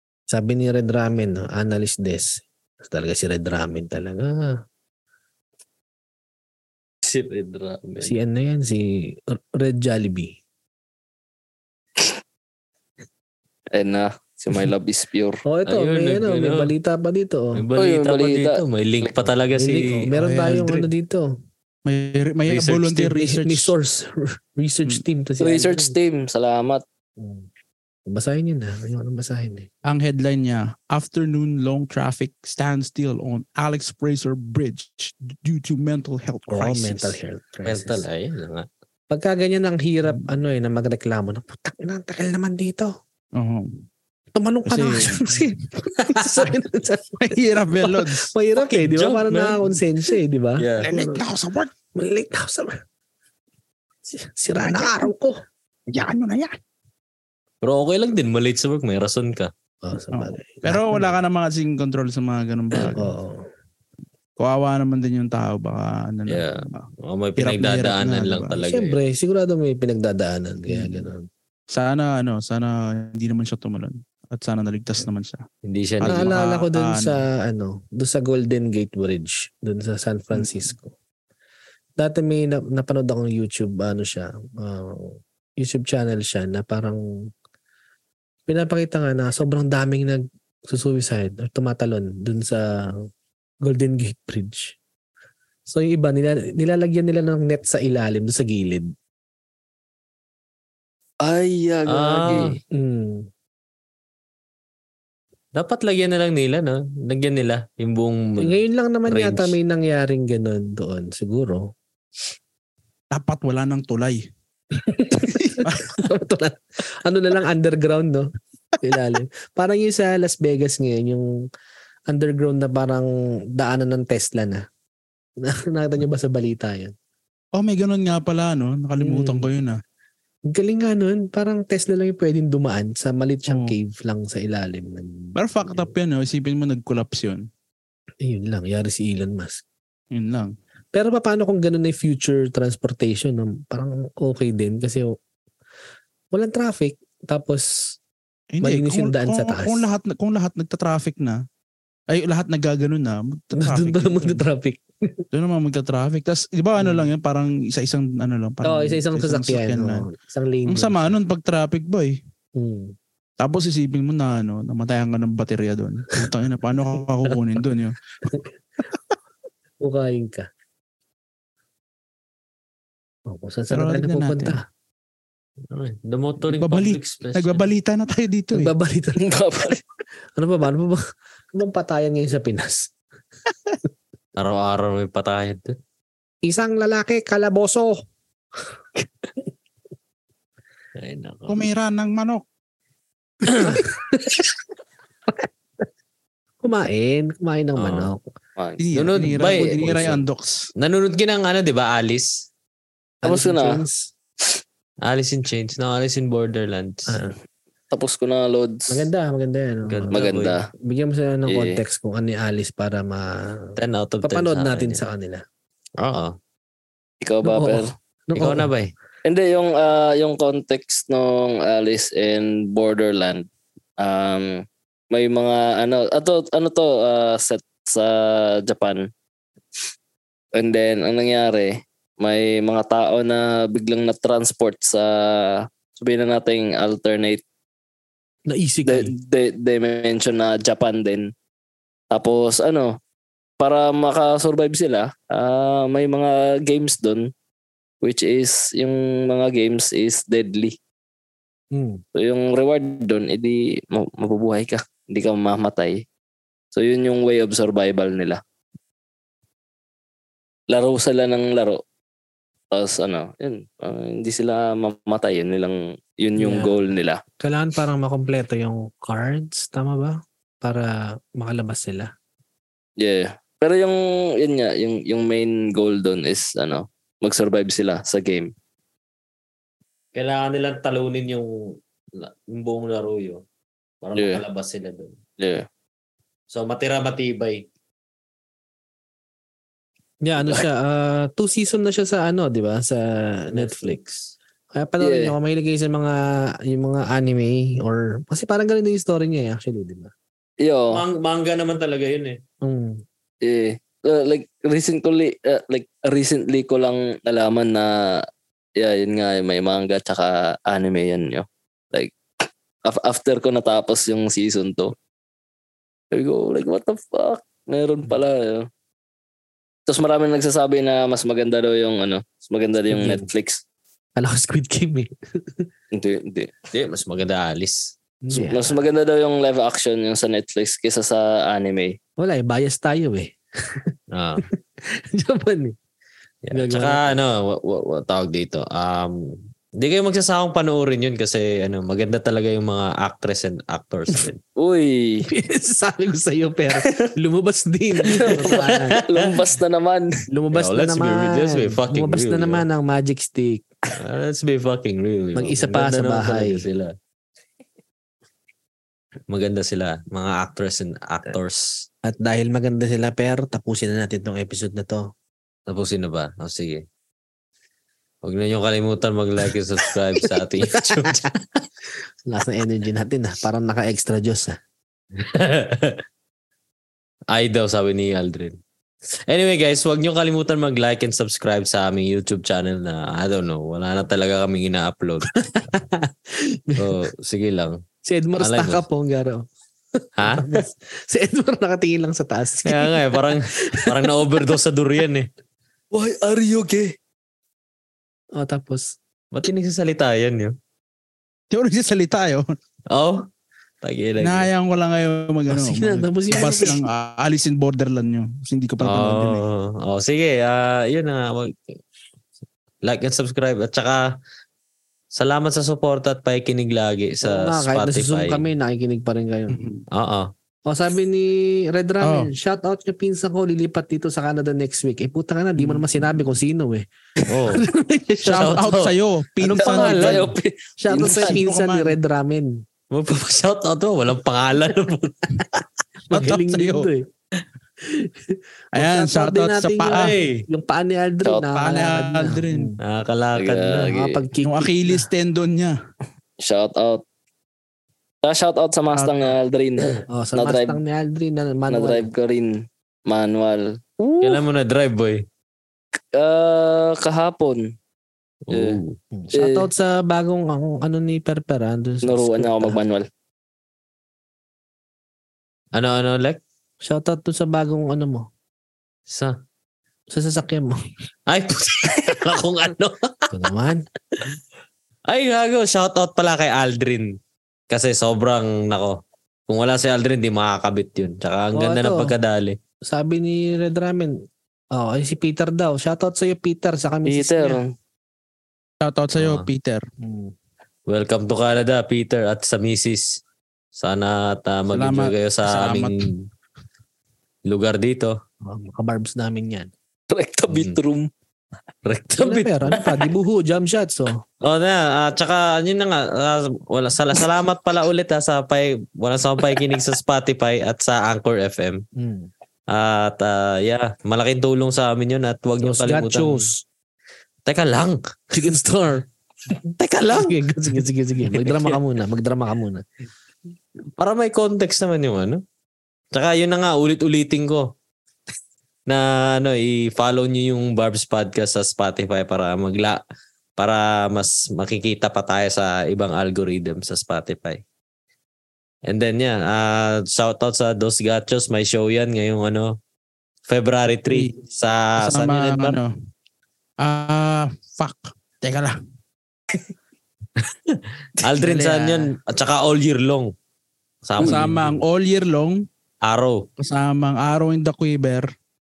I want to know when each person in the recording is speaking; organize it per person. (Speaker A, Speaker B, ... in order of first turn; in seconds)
Speaker A: 0.3-4.6, 8.0-10.3, 15.4-17.6, 19.5-21.3, 23.1-25.9, 27.2-27.5, 28.1-29.7, 36.5-38.0, 39.1-42.9, 44.3-51.2, 51.9-52.8, 54.1-55.4, 59.8-61.1, 62.9-63.5, 68.6-71.3, 76.0-80.9, 82.0-87.0, 88.5-93.0, 93.6-94.8, 95.7-98.9, 102.7-103.3, 108.4-111.7, 114.8-118.3, 118.8-121.4, 122.1-124.6, 125.4-126.9, 129.0-129.5, 130.5-135.9, 138.2-139.6, 140.9-145.2, 146.3-148.0, 148.6-149.8, 153.5-155.3, 156.8-157.1, 158.6-161.1, 162.6-162.9, 169.8-170.5, 173.3-174.6, 178.5-179.2, 180.3-181.0, 181.5-182.9, 186.4-188.0, 193.6-194.4, 196.6-198.3, 199.3-200.1, 203.2-204.1, 208.9-210.2, 210.7-215.4, 217.4-218.7, 238.5-239.1, 251.7-252.0, 266.4-266.7, 267.4-272.1, 290.2-294.0, 294.7-300.1, 302.6-303.0, 322.9-323.2, 324.2-325.7, 328.2-328.7, 332.2-333.8, 334.5-335.7, 336.5-337.1, 345.3-349.0, 350.3-353.7, 355.3-356.6, 362.0-365.1, 370.6-371.2, 372.3-374.6, 385.4-387.0, 388.0-389.4, 390.0-394.1, 398.4-398.9, 405.5-406.8, 417.2-419.6, 420.7-428.6, 429.4-432.6, 436.1-437.0, 437.8-442.8, 443.7-445.1, 450.1-452.1, 459.1-462.8, 466.8-468.3, 470.1-470.8, 473.3-473.8, 481.5-482.1, 482.9-484.1, 484.7-487.6, 490.0-490.3, 498.4-499.7, 502.2-504.2, 511.9-512.3, 515.6-516.6, 518.3-519.0, 519.7-522.8
Speaker B: 7.0-8.1, 15.7-16.7, 17.6-20.1, 22.5-23.1, 37.6-38.7, 46.1-46.4, 48.6-49.6, 50.6-50.9, 57.6-59.5, 66.3-69.0, 75.6-76.3, 101.9-102.6, 105.5-109.6, 175.7-177.7, 184.3-185.8, 190.9-191.7, 193.5-193.8, 197.8-198.1, 198.9-200.2, 200.8-202.4, 205.0-207.3, 209.8-210.6, 213.8-215.0, 216.0-216.3, 218.3-218.9, 280.1-283.4, 284.0-285.2, 286.5-287.6, 293.5-294.3, 300.9-302.4, 326.7-327.9, 334.1-334.4, 336.4-344.4, 348.3-349.4, 350.5-352.6, 353.9-356.9, 359.3-361.9, 365.7-366.9, 368.2-371.3, 375.1-376.0, 377.3-378.6, 379.1-385.3, 386.8-387.8, 388.4-388.8, 390.2-390.6, 392.6-395.3, 399.3-400.5, 402.9-403.2, 403.8-404.5, 408.8-411.8, 412.8-414.1, 415.1-418.4, 419.9-420.3, 427.3-427.6, 428.4-429.0, 432.9-435.4, 439.9-440.4, 442.8-444.2, 454.2-455.2, 458.5-459.0, 465.7-466.4, 469.1-469.4, 471.3-473.3, 475.1-477.2, 477.7-482.6, 489.2-489.5, 490.9-493.2, 493.7-496.3, 497.5-498.2, 500.5-500.8, 501.9-503.0, 504.4-511.8, 512.7-516.5, 517.5-518.5, 519.8-520.8, 521.3-521.8, 524.0-525.4, 526.1-527.7, 528.9-533.0, 533.6-537.6, 538.9-542.8, 543.5-545.8, 550.4-553.3, 554.0-554.8, 556.0-556.5
Speaker C: 13.7-15.4, 17.8-19.2, 25.4-26.8, 101.2-102.6, 179.2-179.8, 198.6-198.8, 203.2-203.8, 207.9-209.1, 210.1-210.6, 211.5-211.8, 217.2-217.9, 219.2-223.5, 224.0-229.1, 230.6-237.4, 238.8-241.3, 242.1-243.0, 243.6-247.3, 248.0-250.8, 252.1-256.0, 256.7-258.4, 260.7-261.8, 262.7-267.2, 273.0-278.5, 284.1-284.4, 285.4-285.6, 295.0-295.3, 300.6-301.0, 303.4-308.2, 308.8-314.9, 316.1-318.7, 319.9-323.6, 325.9-326.6, 328.3-332.0, 344.6-345.2, 348.0-350.1, 395.9-396.9, 429.5-431.4, 441.2-441.5, 443.3-444.0, 446.4-447.0, 448.2-450.8, 451.7-452.5, 453.1-453.8, 456.1-457.7, 458.5-458.8, 459.3-459.7, 462.0-463.1, 487.0-487.7, 500.1-501.1
Speaker D: 20.1-20.9, 21.9-23.7, 29.8-37.2, 43.4-43.8, 44.6-45.5, 47.2-48.3, 50.8-51.7, 54.6-55.1, 55.9-56.6, 60.1-63.1, 64.4-68.6, 71.7-75.4, 76.0-77.2, 80.3-80.7, 113.1-114.2, 115.2-116.0, 127.5-129.8, 133.5-133.8, 135.3-137.4, 140.1-140.5, 148.5-151.4, 152.1-154.4, 155.3-160.1, 160.7-162.2, 163.4-168.1, 173.7-174.6, 176.5-178.7, 191.5-192.4, 198.8-200.7, 401.5-402.5, 404.2-409.4, 419.5-419.8, 422.0-422.3, 425.6-426.2, 428.2-430.3, 430.9-432.0, 436.1-436.9, 438.7-440.1, 441.5-442.7, 444.4-445.8, 448.9-449.3, 488.8-489.9, 494.7-496.1, 545.0-545.9, 546.8-548.8, 551.4-552.0, 554.2-555.6, 556.6-558.3